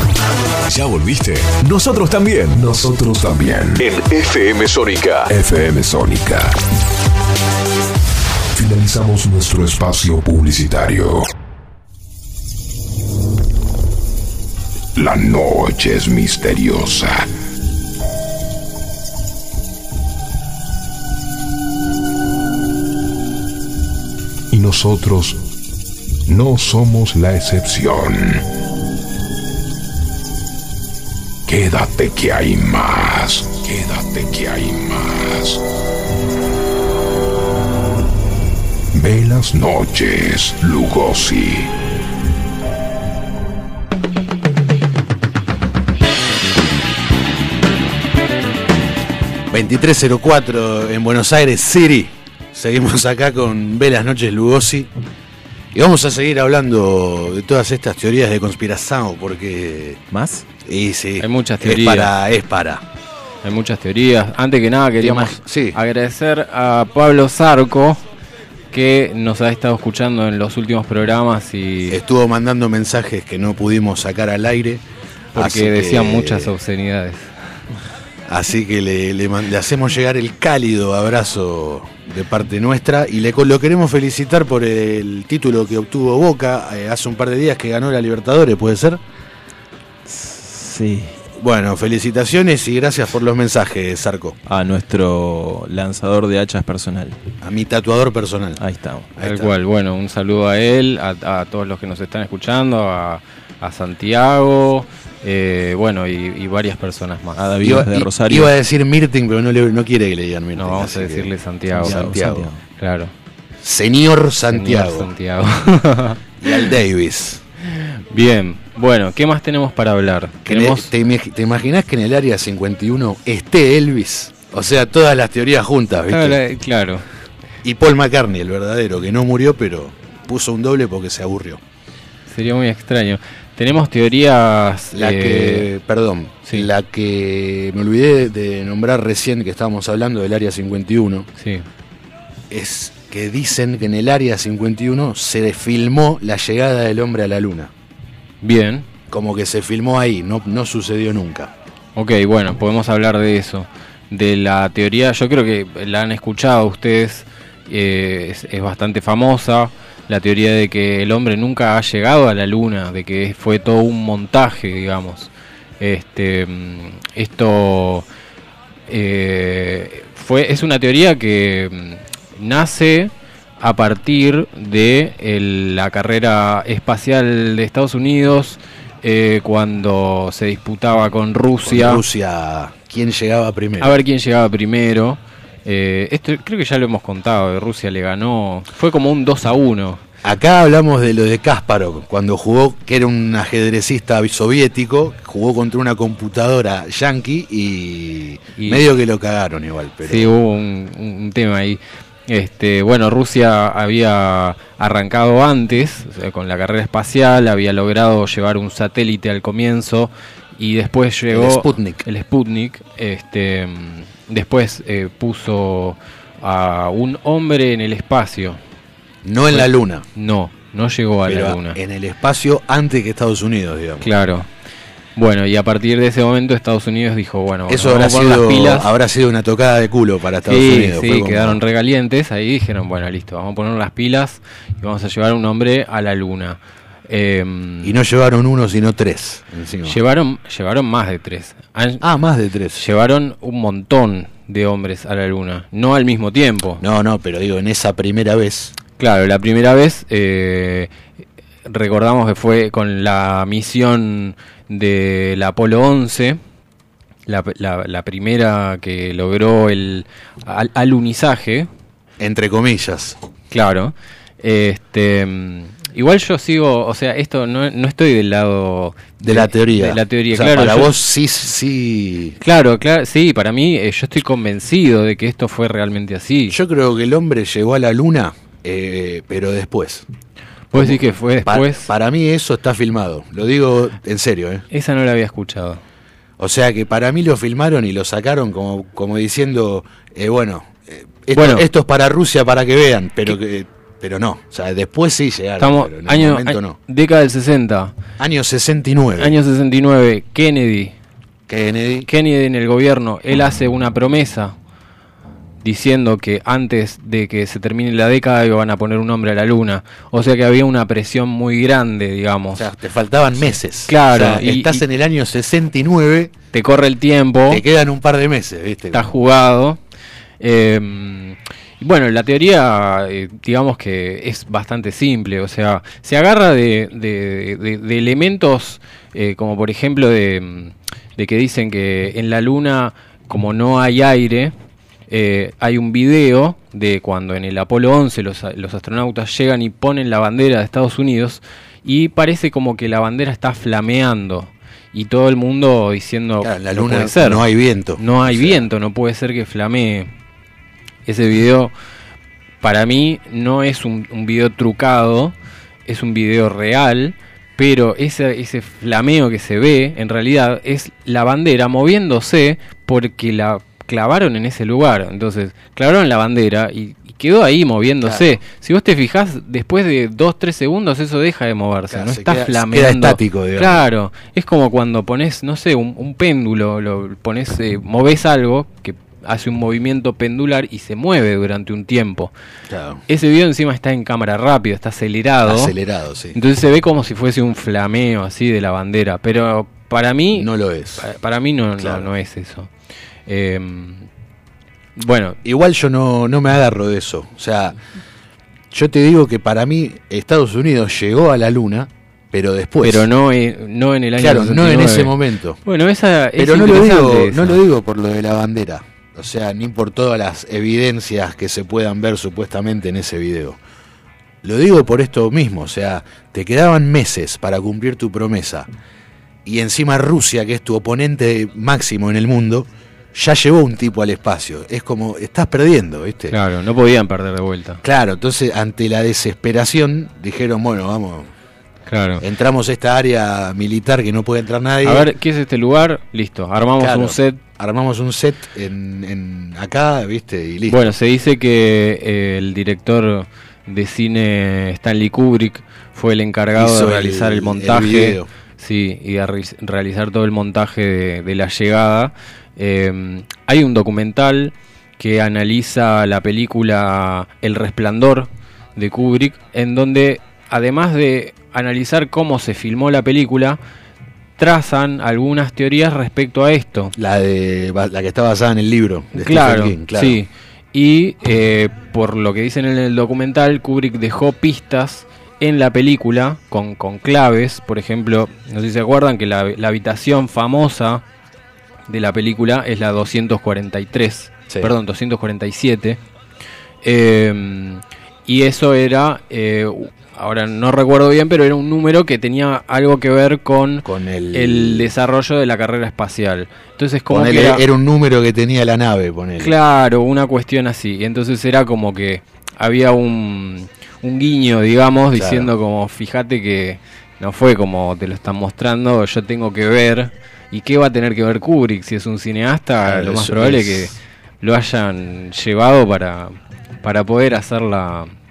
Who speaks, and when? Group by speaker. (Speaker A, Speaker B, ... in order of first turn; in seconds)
Speaker A: 0.7-2.6, 3.8-5.3
Speaker B: 2.5-3.9, 5.3-6.6, 8.5-11.3, 14.9-17.3, 24.5-25.4, 26.3-28.4, 31.5-35.6, 38.9-41.7
Speaker C: 49.5-54.9, 55.7-60.0, 60.6-62.9, 65.0-65.8, 71.9-74.8, 75.3-76.5, 78.3-89.0, 91.4-94.4, 97.4-98.6, 99.2-99.5, 107.6-112.5, 113.6-115.1, 116.4-117.4, 120.5-126.4, 127.6-131.6, 134.9-141.3, 142.5-147.7, 149.1-151.5, 181.6-184.0, 190.2-200.3, 211.3-212.0, 219.2-220.1, 221.3-224.1, 227.7-231.6, 237.8-240.0, 242.0-242.8, 246.8-248.7, 262.2-263.2, 269.2-272.4, 276.5-280.1, 280.7-284.6, 286.4-296.8, 298.2-299.4, 301.5-302.1, 312.5-316.3, 317.5-319.1, 346.4-348.7, 368.0-368.4, 371.9-373.9, 382.7-383.0, 385.4-386.4, 390.4-391.1, 391.8-392.1, 395.4-397.8, 398.7-403.1, 404.2-405.6, 406.4-413.6, 414.4-418.7, 419.4-426.4, 427.8-431.3, 432.2-435.1, 436.8-440.9, 446.6-448.3, 467.0-470.2, 493.8-494.9, 497.1-499.6, 505.1-505.5, 512.9-514.0
Speaker D: 60.1-60.5, 90.1-91.2, 94.5-97.2, 98.6-99.1, 107.4-108.5, 111.8-112.6
Speaker E: 61.2-62.1, 63.4-68.0, 68.7-72.0, 75.3-77.3, 99.2-107.4, 110.6-112.1, 112.8-113.1, 114.5-116.7, 117.6-120.9, 126.1-127.0, 132.3-135.7, 141.4-141.7, 148.4-148.9, 152.0-168.1, 168.9-182.0, 183.8-190.0, 198.6-198.8, 200.0-218.6, 219.5-221.8, 224.0-224.5, 225.2-228.9, 230.5-237.9, 239.8-242.0, 242.8-246.8, 249.0-250.9, 251.7-256.4, 257.3-261.7, 263.5-270.9, 272.4-276.6, 280.7-281.9, 284.7-285.8, 291.3-291.7, 295.6-297.9, 299.2-300.9, 302.1-304.6, 305.6-312.7, 313.9-314.8, 316.5-317.6, 318.9-319.8, 320.4-334.5, 335.1-347.4, 348.0-350.1, 351.1-351.7, 352.6-355.4, 355.9-382.3, 383.1-385.7, 386.4-392.7, 393.3-394.1, 395.0-395.4, 402.8-407.6, 426.3-427.8, 431.9-432.2, 434.8-437.4, 440.7-463.6, 464.4-466.9, 469.1-481.0, 481.9-486.0, 486.8-497.6, 499.4-518.1